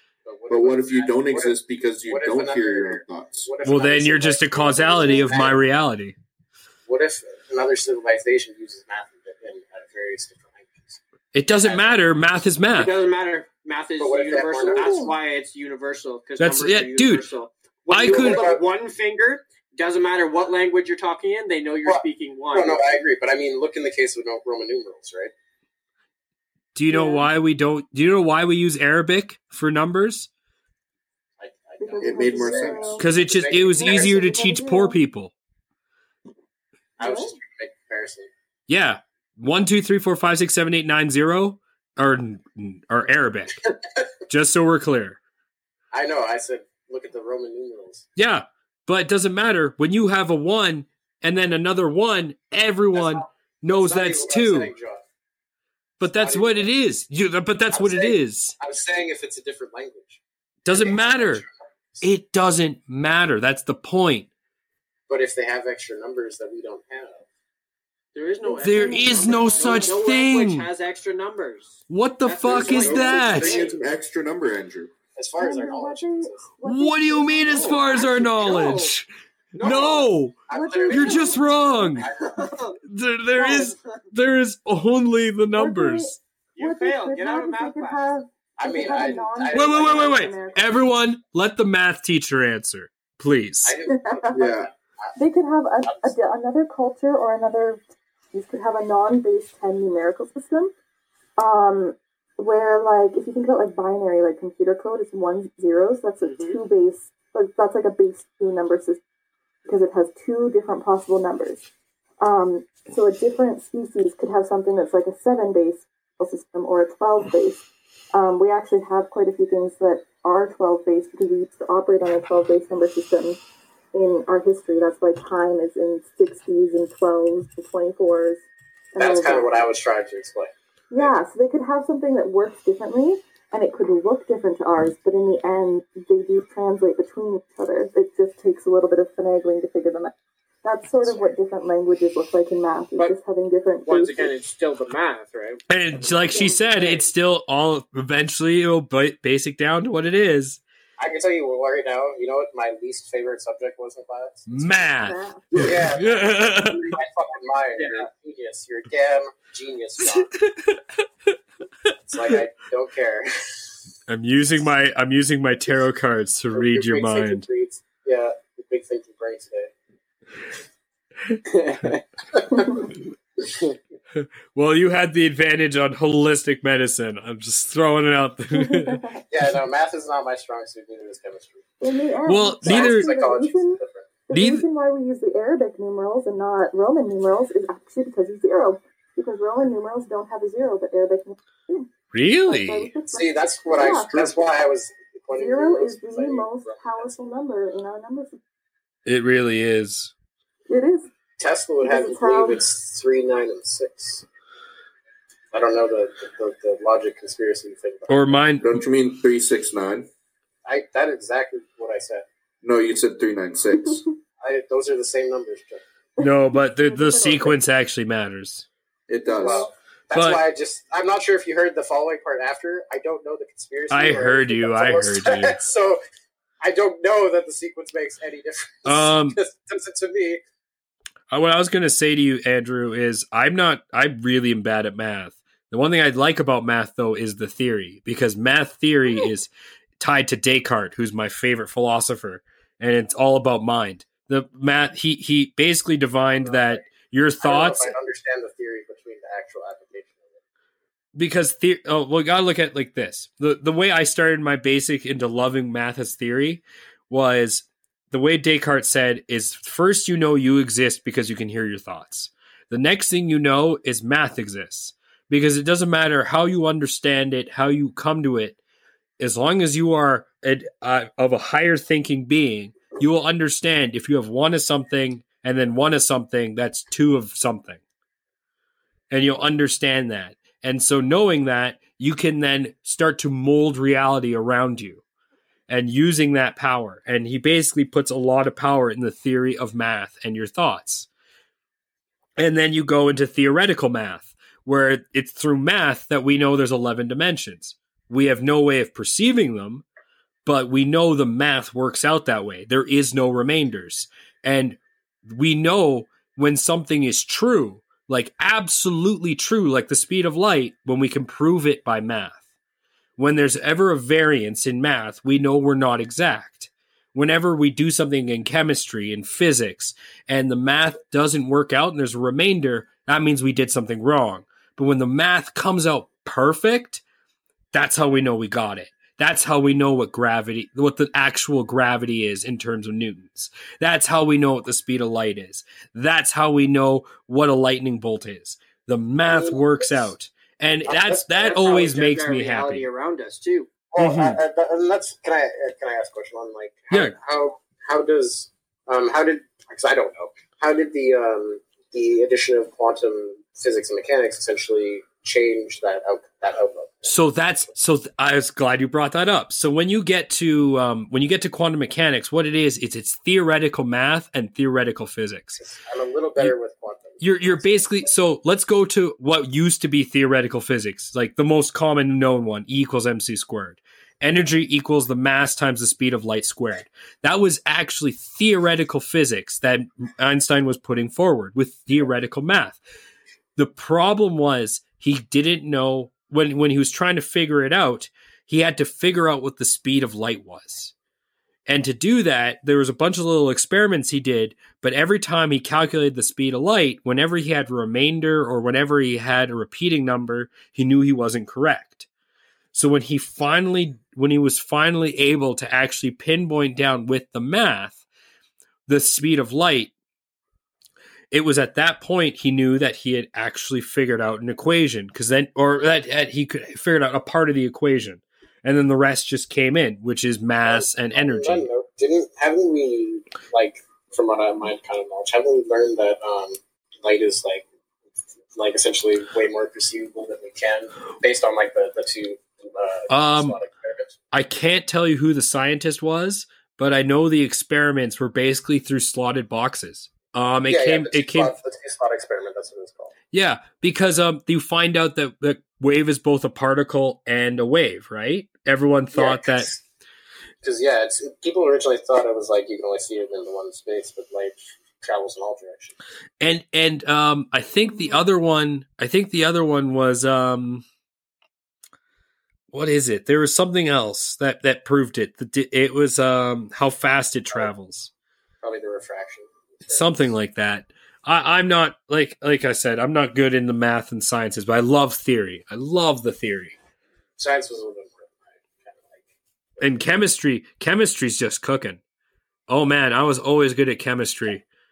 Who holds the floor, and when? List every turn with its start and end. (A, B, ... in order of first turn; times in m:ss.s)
0:00.2-0:01.6 A
0:00.5-0:03.5 B
0:02.1-0:05.6 A
0:03.6-0:06.2 C
0:04.6-0:05.4 D
0:06.9-0:11.0 A
0:11.3-0:13.0 C
0:11.6-0:12.0 A
0:12.8-0:23.0 E
0:14.0-0:15.1 A
0:14.7-0:15.1 D
0:16.4-0:17.2 C
0:17.9-0:18.4 C
0:18.0-0:18.6 A
0:22.5-0:25.3 A
0:26.7-0:30.3 C
0:26.9-0:27.3 D
0:31.4-0:34.1 A
0:31.8-0:33.1 D
0:32.0-0:33.0 B
0:33.0-0:35.3 C
0:33.7-0:35.0 D
0:37.0-0:38.3 A
0:37.0-0:37.4 D
0:38.7-0:43.6 C
0:44.3-0:45.2 C
0:45.9-0:48.1 A
0:48.2-0:54.7 C
0:52.9-0:55.0 A
0:56.0-0:58.6 C
0:56.0-0:56.7 A
0:57.7-1:02.0 A
1:00.6-1:01.4 C
1:02.0-1:04.3 C
1:05.1-1:07.2 A
1:08.1-1:13.7 E
1:08.4-1:10.0 D
1:08.6-1:10.7 C
1:11.9-1:13.6 C
1:12.4-1:14.9 B
1:13.1-1:13.8 A
1:15.1-1:16.5 A
1:15.4-1:18.6 D
1:16.6-1:22.1 C
1:17.5-1:18.9 E
1:19.5-1:20.1 E
1:19.6-1:22.5 A
1:20.5-1:21.9 D
1:22.2-1:22.8 E
1:22.8-1:26.2 C
1:23.4-1:23.7 D
1:23.4-1:24.0 E
1:25.5-1:30.6 D
1:26.5-1:28.0 E
1:28.6-1:30.5 A
1:29.5-1:33.8 C
1:33.6-1:35.1 A
1:33.9-1:34.5 D
1:34.3-1:34.7 B
1:35.1-1:37.8 D
1:38.3-1:40.7 D
1:41.4-1:49.0 D
1:46.2-1:46.6 E
1:49.6-1:51.6 D
1:52.2-2:03.4 D
2:03.9-2:09.6 D
2:09.0-2:11.1 A
2:10.9-2:20.1 D
2:20.6-2:24.3 D
2:23.9-2:27.1 E
2:25.7-2:30.6 C
2:31.0-2:34.5 A
2:34.5-2:37.0 C
2:35.0-2:35.7 D
2:35.6-2:40.3 A
2:37.8-2:38.1 E
2:40.1-2:40.8 C
2:42.0-2:43.6 A
2:44.1-2:47.4 C
2:46.5-2:49.7 A
2:51.5-2:52.0 E
2:52.3-2:52.9 A
2:54.2-2:59.2 C
2:58.5-2:59.2 D
2:59.3-3:01.7 A
3:01.8-3:11.9 D
3:02.2-3:03.1 C
3:02.6-3:04.2 A
3:04.3-3:04.6 C
3:12.1-3:13.0 C
3:12.4-3:14.1 D
3:13.1-3:17.1 A
3:13.7-3:14.4 B
3:15.3-3:18.4 D
3:19.0-3:20.1 C
3:20.7-3:21.1 D
3:21.4-3:24.2 A
3:21.8-3:22.6 D
3:25.5-3:28.4 A
3:28.1-3:28.7 C
3:28.6-3:30.1 B
3:30.6-3:32.2 A
3:32.6-3:34.0 B
3:34.4-3:35.8 A
3:36.2-3:37.6 D
3:36.2-3:38.6 C
3:39.1-3:39.7 B
3:39.2-3:39.7 D
3:39.4-3:46.0 A
3:40.1-3:40.4 C
3:43.9-3:45.6 C
3:46.6-3:50.4 A
3:48.8-3:49.4 C
3:51.3-4:07.9 C
4:06.3-4:06.9 A
4:07.4-4:10.4 A
4:11.1-4:28.6 C
4:29.2-4:37.8 C
4:39.1-4:45.0 C
4:45.7-4:51.1 C
4:52.4-4:59.8 C
5:00.4-5:12.4 C
5:13.2-5:27.0 C
5:27.7-5:42.9 C
5:39.3-5:40.0 A
5:40.9-5:41.2 A
5:41.4-5:43.7 E
5:43.9-5:57.2 A
5:43.9-5:44.4 C
5:57.0-6:05.6 C
6:05.6-6:08.1 A
6:07.2-6:22.8 C
6:23.6-6:30.9 C
6:31.7-6:42.1 C
6:42.7-6:48.0 C
6:48.9-6:49.9 C
6:51.3-7:01.7 C
7:00.6-7:07.6 A
7:08.6-7:14.1 A
7:13.1-7:13.6 C
7:14.3-7:21.5 C
7:20.7-7:23.1 A
7:23.3-7:29.7 C
7:29.1-7:29.8 A
7:30.6-7:35.9 A
7:36.4-7:40.8 C
7:37.9-7:38.2 D
7:42.7-7:48.1 C
7:48.6-7:50.1 A
7:49.9-7:56.8 C
7:57.4-7:59.2 A
7:59.8-8:02.0 C
8:02.7-8:04.6 C